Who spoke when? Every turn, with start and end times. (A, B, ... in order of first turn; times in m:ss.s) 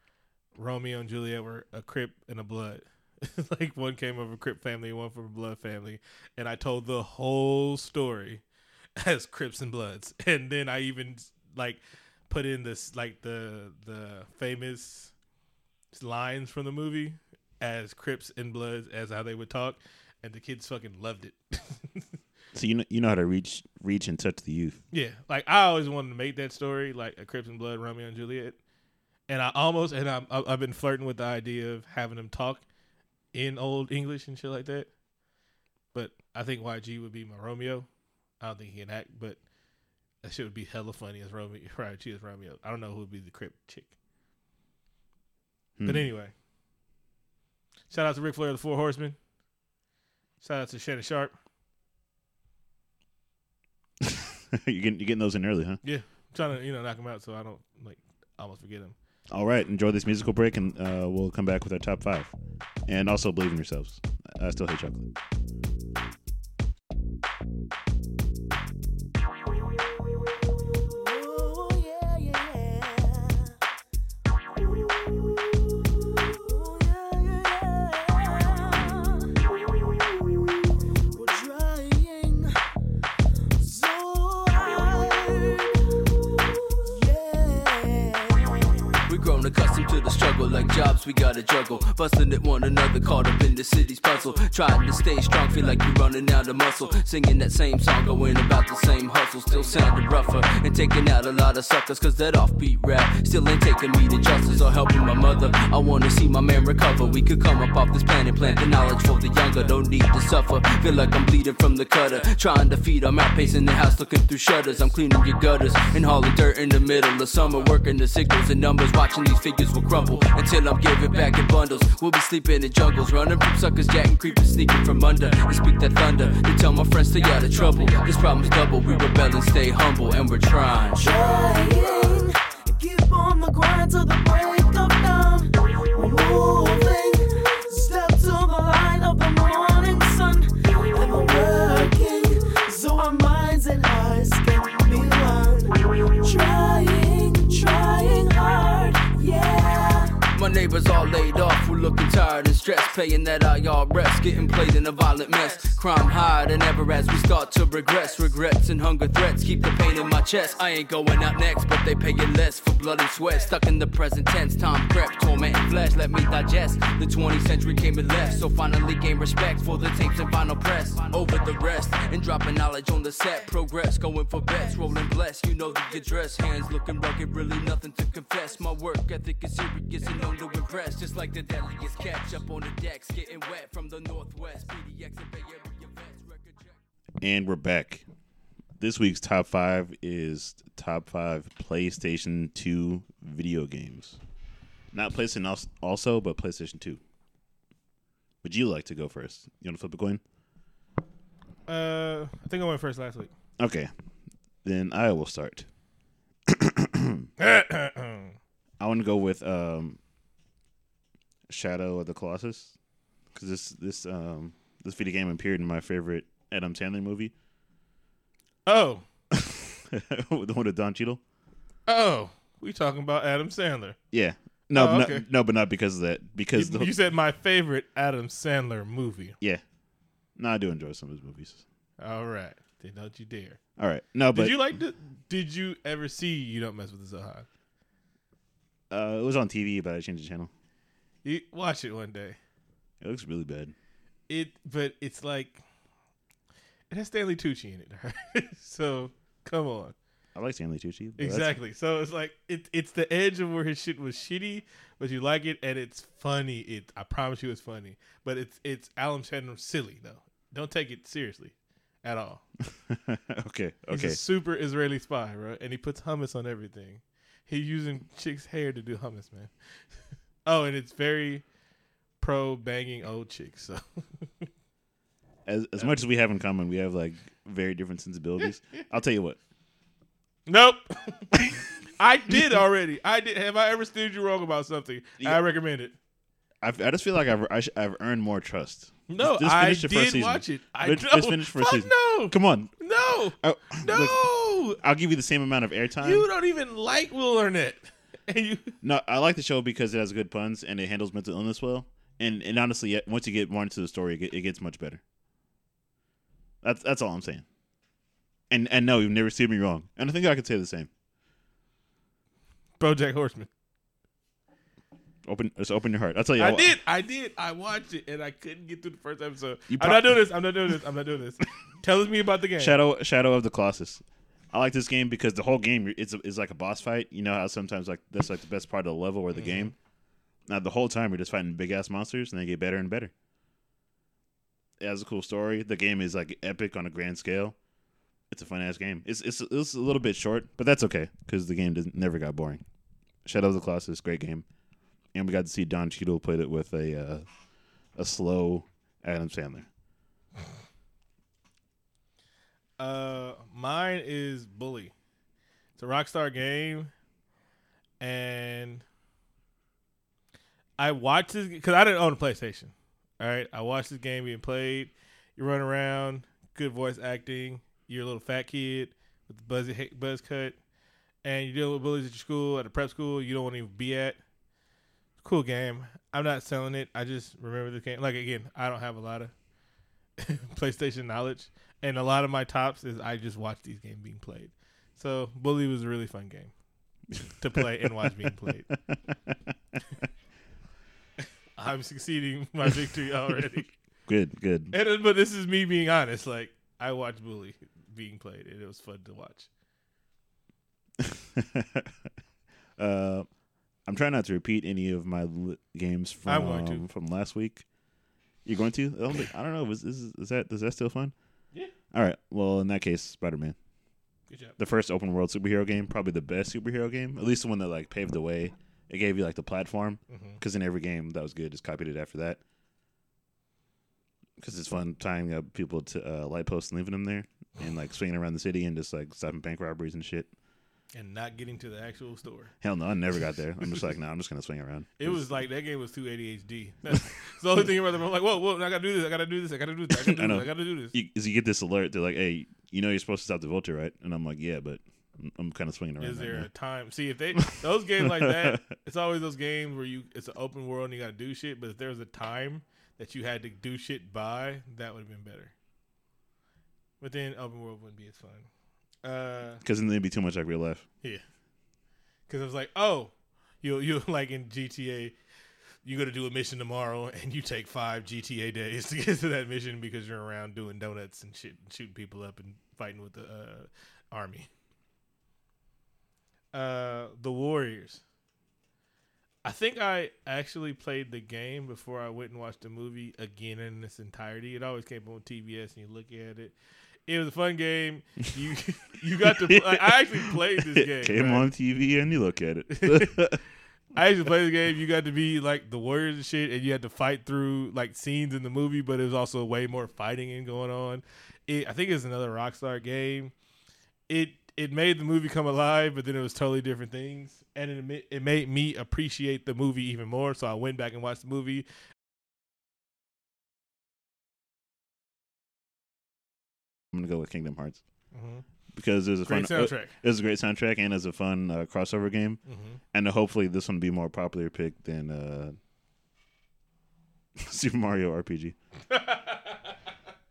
0:00.6-0:08.4 A
0:09.0-0:15.1 A
0:15.9-0:22.1 A
0:22.5-0:24.8 B
0:24.9-0:28.6 A
0:29.3-0:32.6 A
0:33.3-0:34.9 A
0:35.9-0:37.9 A
0:38.4-0:39.4 A
0:40.2-0:43.9 A
0:45.8-0:46.1 B
0:45.8-0:46.3 A
0:47.9-0:49.2 A
0:50.4-0:51.3 A
0:54.0-0:55.8 B
0:55.8-0:59.0 A
0:59.3-1:02.3 B
1:02.9-1:05.1 B
1:10.1-1:13.5 C
1:14.5-1:22.6 C
1:23.6-1:29.0 C
1:29.1-2:11.1 D
2:10.9-2:30.2 C
2:30.3-3:06.7 D
3:07.2-3:08.1 B
3:08.8-3:14.2 B
3:14.9-3:17.0 B
3:18.4-3:20.2 B
3:21.7-3:23.3 A
3:23.6-3:23.9 B
3:24.6-3:25.7 B
3:26.5-3:27.3 B
3:27.4-3:28.4 A
3:28.8-3:30.0 B
3:31.5-3:32.7 B
3:33.3-3:37.3 B
3:38.6-3:39.0 A
3:39.3-3:41.2 B
3:41.9-3:44.0 A
3:44.1-3:46.9 B
3:44.7-3:45.2 A
3:46.6-3:49.4 A
3:50.4-3:51.6 B
3:52.0-3:53.6 A
3:53.8-3:54.7 B
3:54.3-3:57.4 A
3:58.9-4:00.5 B
4:01.2-4:02.4 A
4:03.0-4:03.7 B
4:04.3-4:05.6 A
4:06.9-4:10.0 A
4:10.3-4:11.6 B
4:11.2-4:22.4 A
4:22.7-4:24.2 B
4:23.9-4:29.5 A
4:30.4-4:31.4 A
4:32.2-4:34.5 A
4:35.4-4:39.4 B
4:40.5-4:46.0 A
4:46.6-4:52.7 B
4:49.1-4:54.8 A
4:53.4-4:56.3 B
4:56.0-4:58.7 A
4:58.8-5:05.0 B
5:06.6-5:07.4 B
5:08.5-5:10.9 B
5:12.8-5:13.5 A
5:15.2-5:16.7 B
5:16.4-5:22.8 A
5:19.7-5:20.3 B
5:22.6-5:29.7 B
5:29.3-5:29.7 A
5:30.5-5:33.1 B
5:34.8-5:37.6 B
5:38.3-5:42.6 B
5:43.2-5:44.4 B
5:45.1-5:47.3 B
5:48.0-5:49.7 B
5:52.8-5:54.9 A
5:55.8-5:56.9 A
5:58.0-5:58.8 A
6:00.8-6:10.6 A
6:11.2-6:14.2 A
6:15.2-6:19.3 A
6:20.2-6:26.5 A
6:27.4-6:28.7 A
6:31.6-6:33.7 A
6:34.0-6:34.7 B
6:34.7-6:39.5 A
6:41.0-6:41.9 B
6:42.8-6:43.3 B
6:43.8-6:47.6 B
6:46.3-6:46.8 A
6:48.4-6:51.1 B
6:51.9-6:53.6 B
6:54.3-6:54.6 A
6:54.6-7:02.4 B
7:00.1-7:00.4 A
7:04.4-7:10.3 B
7:10.9-7:12.5 A
7:12.6-7:15.2 B
7:15.0-7:20.9 A
7:20.0-7:26.5 B
7:26.0-7:35.5 A
7:27.5-7:28.7 B
7:37.0-7:38.5 A
7:39.0-7:39.6 A
7:39.6-7:40.9 B
7:42.3-7:45.1 A
7:45.8-7:54.5 A
7:56.5-7:58.0 A
7:59.4-8:06.6 A
8:07.1-8:11.5 A
8:09.2-8:13.4 B
8:12.7-8:13.3 A
8:13.9-8:23.3 A
8:24.1-8:31.7 A
8:36.9-8:37.8 B
8:38.1-8:38.4 A
8:38.7-8:42.4 B
8:39.3-8:40.0 A
8:42.5-8:42.8 A
8:42.9-8:45.6 B
8:47.4-8:48.6 B
8:48.9-8:49.8 A